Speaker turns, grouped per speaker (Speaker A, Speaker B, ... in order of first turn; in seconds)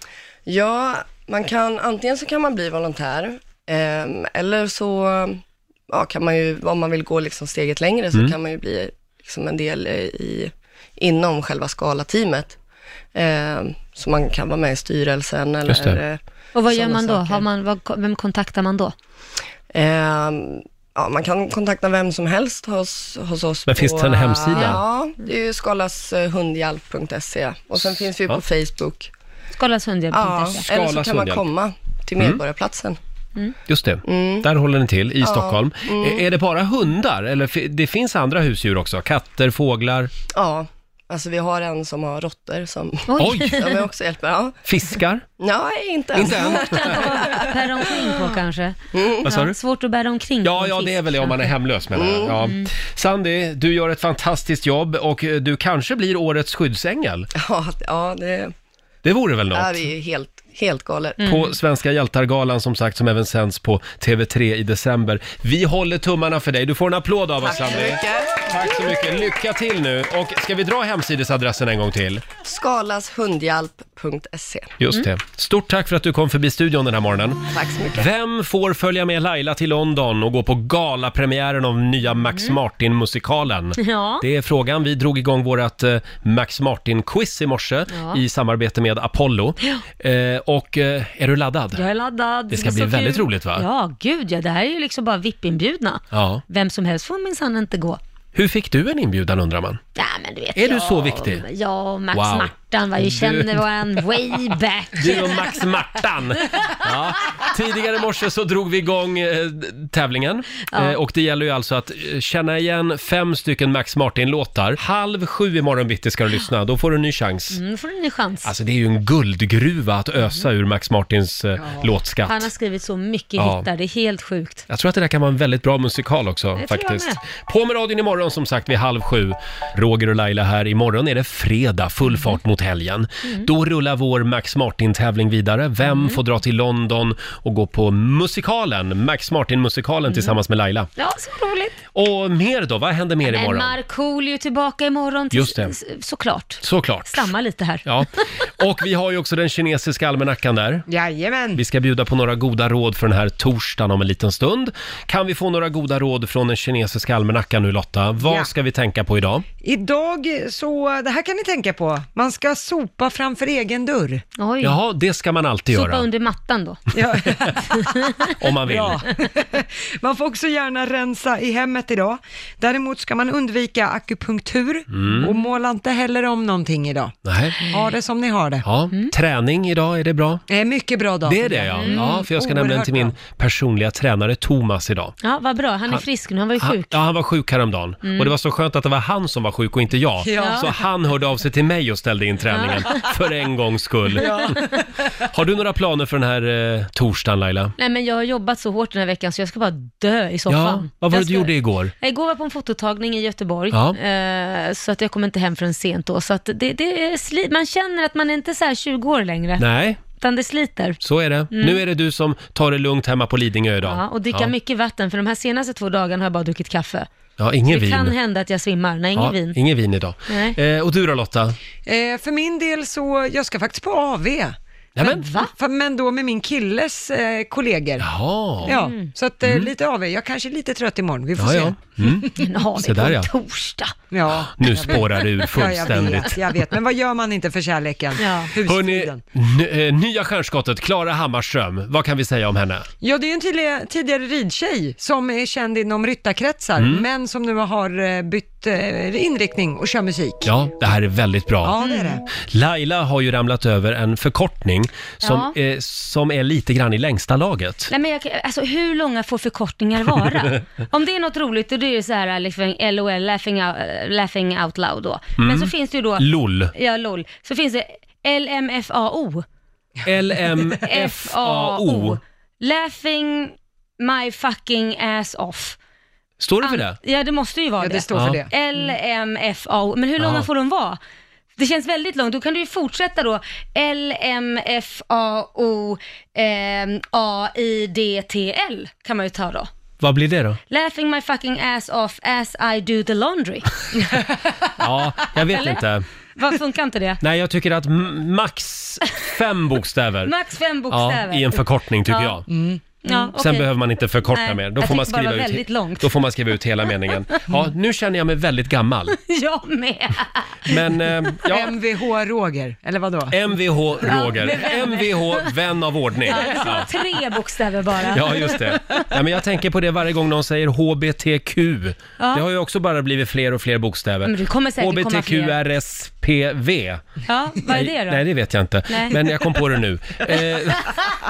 Speaker A: 0.5-12.6, 13.1-17.4, 19.7-29.1, 30.1-33.0, 34.0-34.5, 35.2-36.2, 40.3-44.6, 45.4-48.3, 48.9-49.3, 51.9-52.4, 57.4-58.5, 59.5-61.2, 67.4-68.4, 72.4-74.7, 77.5-78.1
Speaker B: 15.7-16.0, 23.7-24.8, 27.9-28.4, 30.7-31.4, 33.7-40.1, 43.2-43.6, 44.6-45.2, 46.1-47.3, 49.2-49.5, 50.4-57.3, 59.0-59.9, 61.2-72.2, 74.8-77.4, 78.0-91.8, 92.5-93.6, 96.1-96.4, 98.3-99.8, 100.5-101.4, 102.1-104.0, 104.9-117.6, 118.4-122.5, 123.4-123.7, 124.7-140.9, 141.9-143.8, 145.3-145.7, 146.6-147.3, 147.8-150.9, 151.5-159.4, 164.6-166.1, 168.3-169.1, 174.9-175.3, 177.2-177.6, 178.6-180.4, 181.2-185.2, 186.6-194.6, 195.2-197.7, 200.5-201.9, 203.7-204.0, 209.6-210.0, 211.0-214.5, 217.4-218.1, 219.2-221.5, 224.9-225.2, 228.0-228.8, 229.4-229.7, 231.4-233.3, 234.6-236.4, 238.7-242.9, 246.8-247.0, 250.4-251.8, 252.4-257.9, 265.4-266.7, 270.0-272.2, 276.4-277.0, 278.1-278.4, 280.2-280.5, 290.0-290.6, 294.8-296.0, 297.2-300.3, 300.9-302.4, 303.1-309.2, 310.6-311.8, 313.3-316.9, 318.1-327.0, 327.7-331.0
Speaker C: 16.5-18.9, 24.5-24.8, 29.6-30.6, 43.1-43.8, 46.3-51.5, 61.2-61.5, 82.3-82.5, 83.8-84.2, 87.9-88.2, 91.7-98.0, 100.0-105.6, 106.5-106.8, 110.7-111.0, 117.5-118.5, 122.2-124.6, 126.6-127.2, 135.8-136.2, 140.1-140.3, 141.0-141.8, 143.2-148.2, 164.4-164.8, 165.7-166.8, 177.6-177.9, 181.8-182.2, 185.2-187.0, 188.0-188.3, 190.4-190.7, 192.5-193.1, 194.2-194.8, 197.8-211.0, 211.5-211.8, 213.8-217.1, 217.7-219.6, 220.3-220.6, 225.0-225.5, 228.6-229.1, 232.2-233.9, 238.2-238.5, 251.8-252.2, 255.2-255.5, 257.9-269.4, 270.8-275.8, 276.6-281.0, 281.6-289.7, 290.7-294.2, 295.5-295.8, 296.4-297.2, 300.2-302.4, 303.0-303.7, 304.3-306.1, 309.2-310.8, 314.0-315.5, 316.2-319.0, 322.2-322.4, 324.2-325.6, 327.3-328.2, 328.9-329.2
Speaker D: 150.9-151.6, 158.2-158.5, 159.6-164.2, 166.9-178.6, 180.5-183.1, 190.2-190.8, 194.2-194.9, 221.8-224.5, 225.3-228.1, 228.6-232.1, 234.1-239.2, 243.0-250.5, 251.6-252.2, 277.8-278.9, 302.5-302.8, 311.4-313.4, 316.4-316.8